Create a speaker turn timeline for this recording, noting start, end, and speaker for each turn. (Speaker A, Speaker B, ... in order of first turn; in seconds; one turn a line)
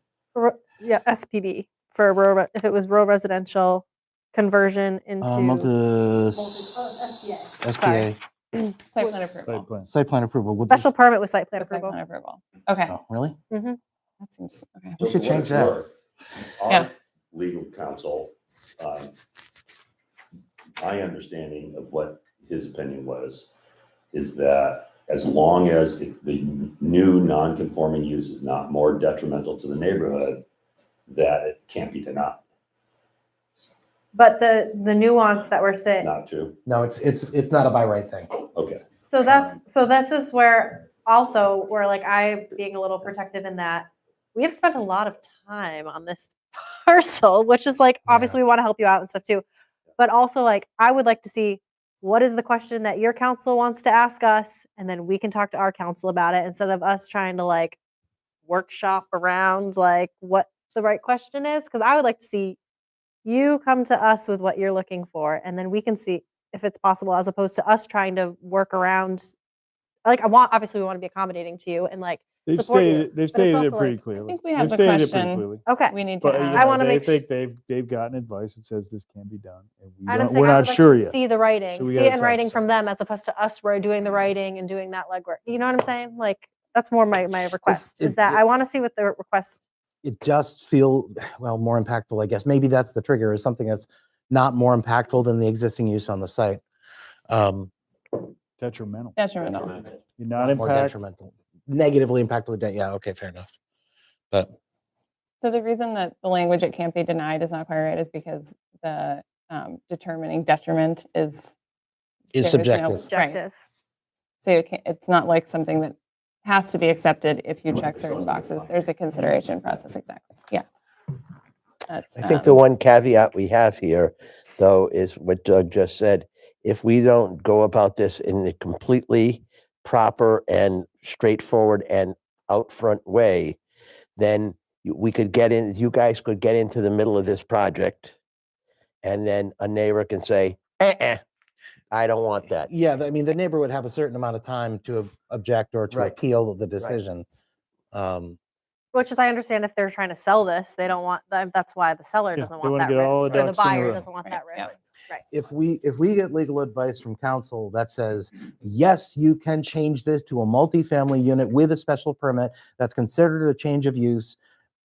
Speaker A: 0.3-5.7
Speaker B: 5.2-8.2
Speaker A: 6.3-9.1
Speaker C: 8.9-9.7
Speaker D: 9.3-9.9
Speaker B: 9.8-10.9
Speaker A: 10.7-12.0
Speaker C: 11.6-12.9
Speaker B: 12.9-13.4
Speaker A: 13.5-13.8
Speaker C: 14.2-15.0
Speaker E: 15.0-15.9
Speaker B: 15.0-15.8
Speaker E: 16.6-19.1
Speaker E: 20.8-23.5
Speaker E: 24.1-30.4
Speaker E: 31.1-32.4
Speaker A: 34.1-36.1
Speaker E: 36.0-36.6
Speaker B: 36.7-38.3
Speaker E: 38.5-38.8
Speaker A: 39.1-49.4
Speaker B: 48.1-48.4
Speaker A: 50.0-57.8
Speaker A: 58.5-62.6
Speaker A: 63.2-69.3
Speaker A: 70.0-74.0
Speaker D: 72.5-75.7
Speaker C: 74.3-76.8
Speaker A: 75.7-77.2
Speaker D: 76.2-82.6
Speaker A: 80.1-89.6
Speaker B: 87.7-88.4
Speaker B: 90.0-96.6
Speaker B: 97.3-97.7
Speaker D: 98.6-99.2
Speaker C: 99.2-99.9
Speaker E: 99.5-99.9
Speaker D: 100.1-101.0
Speaker B: 100.4-103.5
Speaker C: 105.4-111.5
Speaker B: 112.3-113.1
Speaker C: 112.4-113.4
Speaker A: 113.0-113.6
Speaker C: 114.4-120.7
Speaker E: 117.7-118.8
Speaker C: 121.9-122.6
Speaker F: 122.2-133.6
Speaker F: 134.2-138.2
Speaker F: 139.0-141.2
Speaker F: 141.9-142.7
Speaker B: 142.7-147.2
Speaker B: 147.9-148.4
Speaker A: 148.9-155.2
Speaker D: 152.4-154.1
Speaker C: 154.2-154.7
Speaker B: 155.3-164.4